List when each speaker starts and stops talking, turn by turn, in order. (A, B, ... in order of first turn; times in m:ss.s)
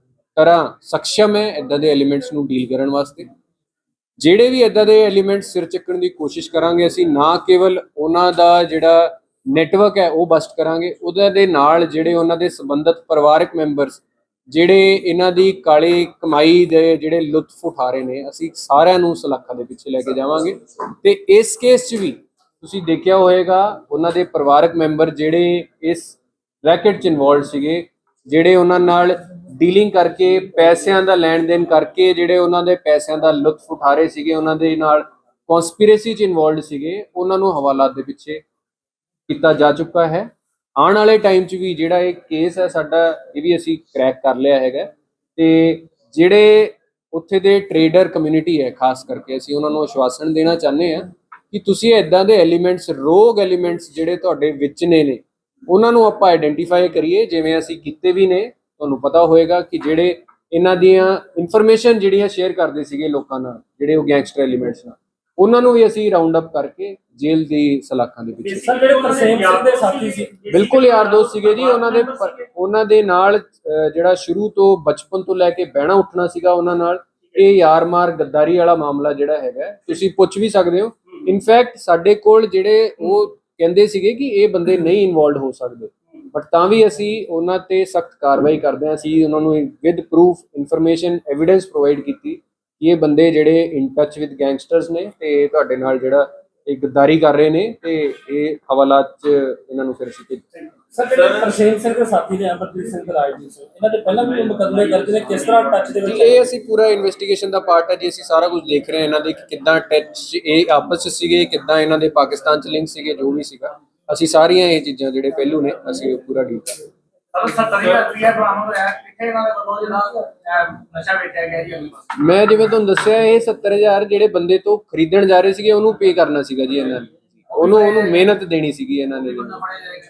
0:00.4-0:03.3 A
0:04.2-0:38.4 A
0:39.3-1:08.7 A
1:08.4-1:12.4 B
1:08.6-1:10.4 C
1:10.5-1:40.6 A
1:40.9-1:46.4 C
1:45.2-1:45.9 B
1:46.0-1:56.8 A
1:57.3-2:02.0 B
2:02.2-2:09.6 A